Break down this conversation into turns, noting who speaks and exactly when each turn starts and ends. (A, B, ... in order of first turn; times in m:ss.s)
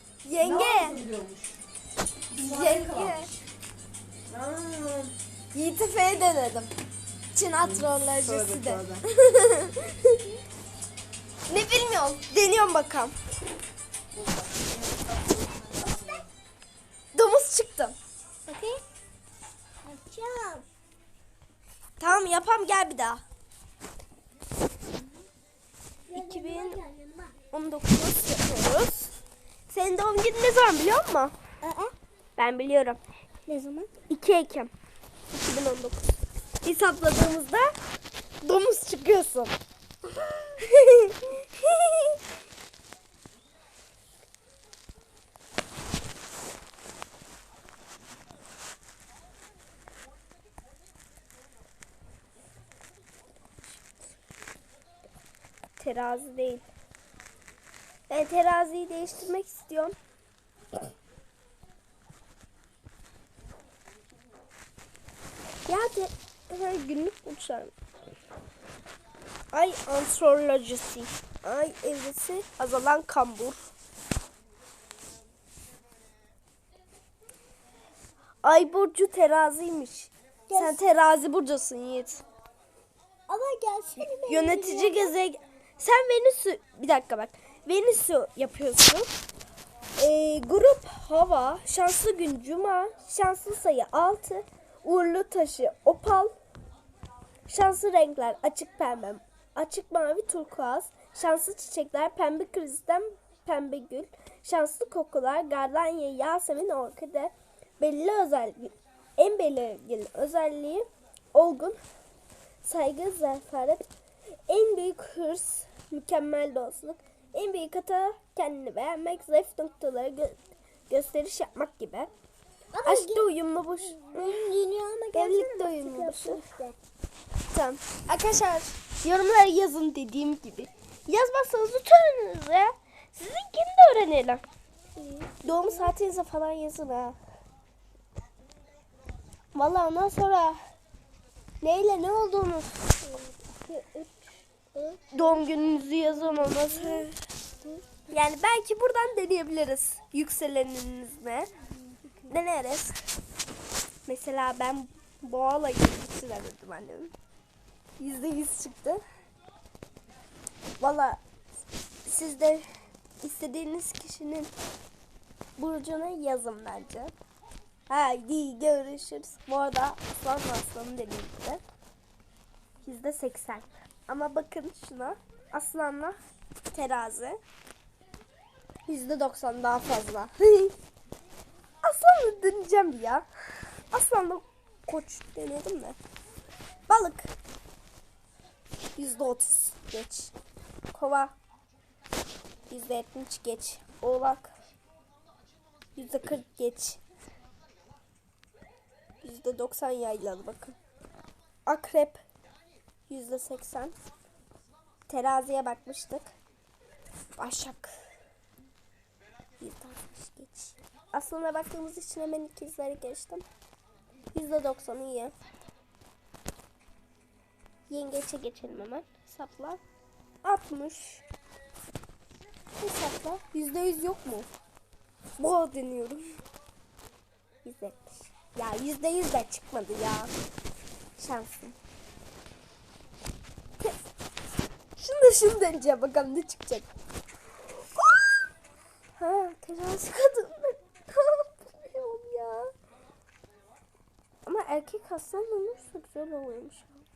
0:00.2-0:01.0 A
0:00.4-0:01.6 B
0:02.3-0:03.4 B
0:02.4-0:03.3 A
0:04.3-0:05.2 B
0:05.5-0:06.7 A
0:07.3-0:10.2 A
0:07.6-0:09.0 B
0:11.5-0:13.2 A
0:14.1-0:16.3 B
0:15.8-0:16.2 C
0:17.1-0:18.0 A
0:18.4-0:18.8 C
0:19.8-0:20.7 C
0:22.0-0:23.2 A
0:26.1-0:27.4 C
0:26.1-0:26.8 A
0:27.5-0:29.2 A
0:29.7-0:31.4 A
0:31.6-0:32.0 C
0:32.4-0:33.0 A
0:33.5-0:33.9 C
0:34.1-0:34.7 A
0:35.3-0:36.1 A
0:36.6-0:37.8 A
0:38.4-0:39.6 A
0:40.6-0:42.2 A
0:55.8-0:56.7 A
0:58.1-1:00.0 A
1:05.7-1:07.7 A
1:09.5-1:13.7 A
1:18.4-1:22.2 A
1:20.5-1:20.8 C
1:23.3-1:25.1 C
1:24.0-1:29.1 A
1:30.0-1:36.3 A
1:37.5-1:51.8 A
1:52.6-1:53.9 A
1:54.5-2:02.1 A
2:02.7-2:03.2 C
2:02.8-2:04.4 A
2:03.9-2:06.8 C
2:05.1-2:06.4 A
2:07.5-2:14.4 A
2:15.0-2:15.9 C
2:15.4-2:17.2 A
2:19.5-2:20.6 A
2:21.6-2:22.8 A
2:23.0-2:25.4 C
2:25.1-2:27.2 A
2:26.1-2:27.1 C
2:27.6-2:27.9 C
2:28.1-2:31.5 A
2:31.7-2:32.4 C
2:32.3-2:33.0 A
2:34.1-2:37.1 A
2:38.0-2:39.0 A
2:40.8-2:41.2 A
2:42.0-2:42.7 A
2:43.2-2:44.5 A
2:45.6-2:47.1 A
2:47.9-2:51.6 A
2:52.8-2:56.2 A
2:56.7-2:57.4 A
2:58.9-3:00.8 A
3:01.8-3:06.0 A
3:06.9-3:07.3 A
3:09.0-3:10.3 A
3:10.9-3:11.3 A
3:12.7-3:14.6 A
3:16.0-3:17.0 A
3:19.2-3:20.8 A
3:21.7-3:22.2 A
3:23.1-3:24.0 A
3:25.1-3:26.4 A
3:27.4-3:27.9 A
3:29.6-3:33.4 A
3:34.3-3:35.3 A
3:37.9-3:39.8 A
3:40.4-3:41.2 A
3:42.8-3:44.5 A
3:45.4-3:46.4 A
3:47.6-3:50.3 A
3:51.2-3:51.8 A
3:53.8-3:54.1 A
3:55.0-3:56.9 A
3:58.1-3:58.4 A
3:59.2-4:02.7 A
4:04.5-4:07.0 A